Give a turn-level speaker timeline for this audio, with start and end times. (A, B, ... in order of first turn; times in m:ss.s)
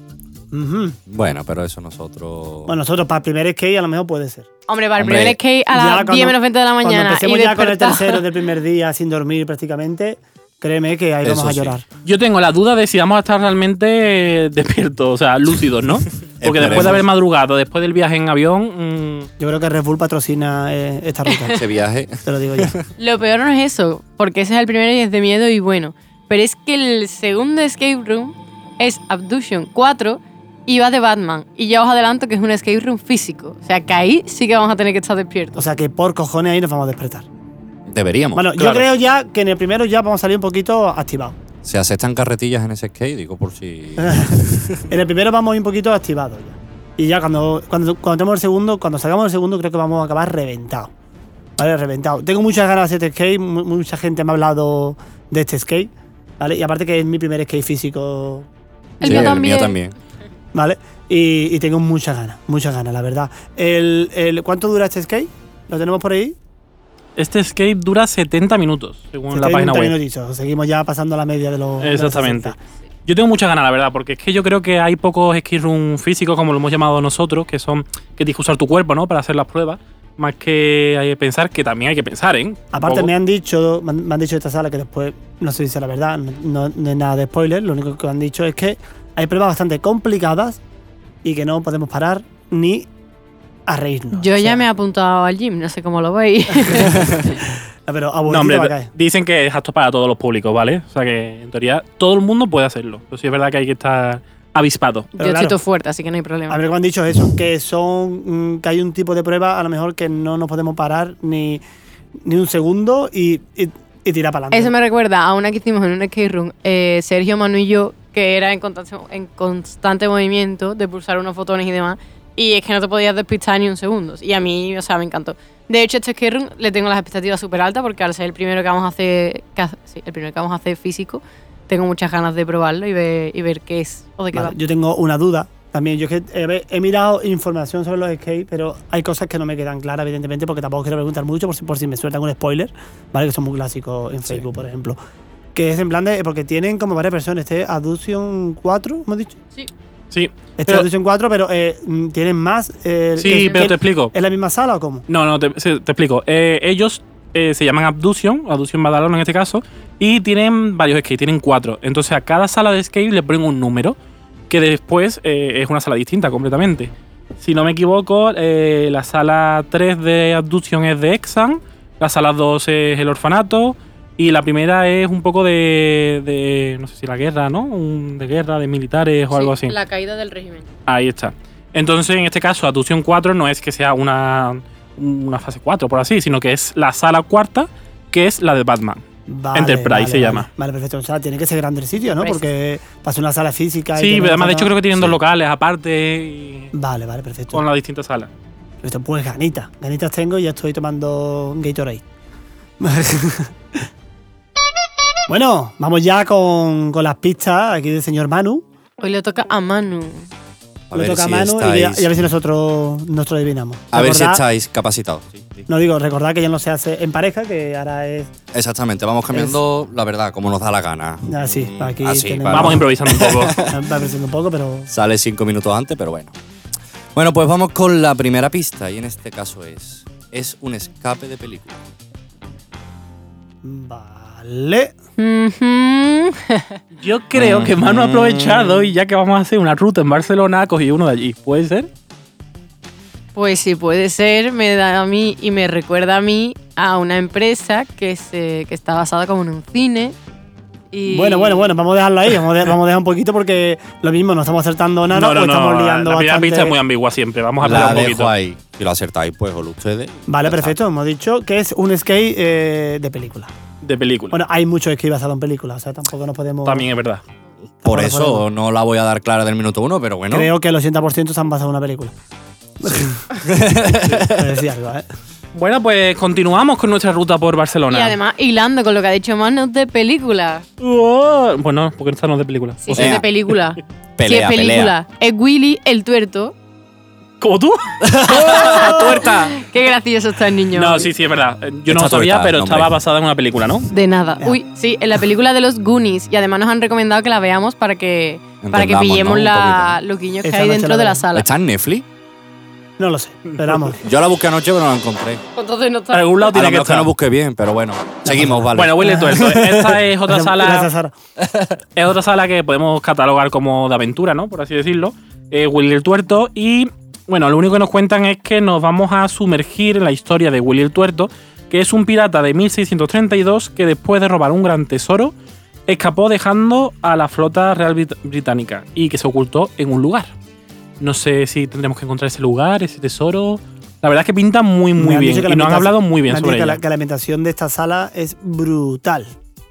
0:00.5-0:01.0 A
0:01.1-0:02.7 B
0:02.7-0:04.5 A
0:04.7-0:08.2 C
0:05.0-0:05.4 B
0:05.7-0:11.8 A
0:11.2-0:11.7 B
0:12.0-0:19.3 D
0:16.4-0:17.0 B
0:16.7-0:17.0 A
0:19.4-0:21.6 A
0:21.5-0:22.8 B
0:22.2-0:22.8 A
0:23.0-0:35.6 C
0:35.6-0:37.3 A
0:37.9-0:38.5 B
0:38.3-0:41.4 A
0:38.6-0:38.9 D
0:41.6-0:44.8 B
0:44.0-0:44.4 A
0:44.9-0:50.9 A
0:51.6-0:58.5 A
0:59.0-0:59.4 A
0:59.0-0:59.8 C
0:59.0-0:59.9 B
1:00.5-1:06.4 A
1:07.2-1:09.9 D
1:09.3-1:12.6 A
1:11.8-1:12.5 D
1:13.0-1:23.1 D
1:22.7-1:30.6 A
1:31.2-1:32.9 A
1:33.7-1:34.6 A
1:34.1-1:37.3 C
1:36.6-1:38.9 A
1:38.3-1:45.1 D
1:45.1-1:45.6 A
1:45.2-1:46.6 C
1:46.5-1:51.6 A
1:52.2-1:54.7 A
1:54.5-2:14.6 C
2:14.3-2:25.0 A
2:25.5-2:29.4 A
2:30.1-2:30.9 D
2:30.6-2:35.0 A
2:33.2-2:34.1 D
2:33.2-2:33.6 C
2:35.1-2:44.0 D
2:44.5-2:59.7 D
2:59.3-3:00.7 C
3:00.9-3:09.0 D
3:09.3-3:14.7 A
3:09.5-3:10.5 D
3:12.1-3:12.4 C
3:14.0-3:16.7 D
3:14.9-3:15.2 B
3:16.7-3:17.6 A
3:17.5-3:18.3 D
3:18.8-3:22.0 A
3:22.8-3:23.5 A
3:25.3-3:28.6 A
3:29.0-3:30.3 C
3:30.9-3:32.2 B
3:30.9-3:34.4 A
3:33.9-3:35.7 B
3:35.7-3:38.3 A
3:38.5-3:43.9 B
3:39.3-3:39.6 A
3:41.3-3:42.8 A
3:42.5-3:43.6 D
3:43.6-3:44.9 A
3:44.9-3:46.3 B
3:47.1-3:51.8 B
3:53.6-3:54.9 A
3:55.2-3:56.8 C
3:57.0-4:01.9 D
3:57.3-3:58.0 B
3:58.0-3:58.9 A
4:03.3-4:10.2 C
4:10.9-4:11.8 C
4:11.1-4:16.8 A
4:15.1-4:18.3 D
4:17.6-4:20.8 B
4:20.3-4:23.5 A
4:23.8-4:24.4 D
4:24.3-4:26.8 A
4:26.6-4:27.2 D
4:27.8-4:30.5 B
4:27.8-4:28.4 A
4:30.3-4:32.1 A
4:32.8-4:33.5 A
4:33.5-4:34.6 B
4:34.1-4:35.0 A
4:35.5-4:38.2 D
4:37.9-4:40.6 C
4:40.8-4:43.2 D
4:42.8-4:46.5 C
4:42.9-4:43.3 B
4:44.2-4:44.9 B
4:47.4-4:49.6 D
4:48.2-4:51.1 C
4:50.7-4:53.9 D
4:51.9-4:52.9 B
4:53.9-5:01.5 C
4:58.6-5:00.0 B
5:00.4-5:01.2 A
5:01.3-5:02.0 B
5:03.0-5:04.0 A
5:04.0-5:05.4 B
5:05.6-5:06.5 C
5:06.1-5:07.1 D
5:06.5-5:09.7 B
5:08.3-5:11.1 A
5:08.7-5:10.9 D
5:12.0-5:25.3 D
5:25.9-5:30.3 D
5:31.0-5:36.8 D
5:35.0-5:39.3 A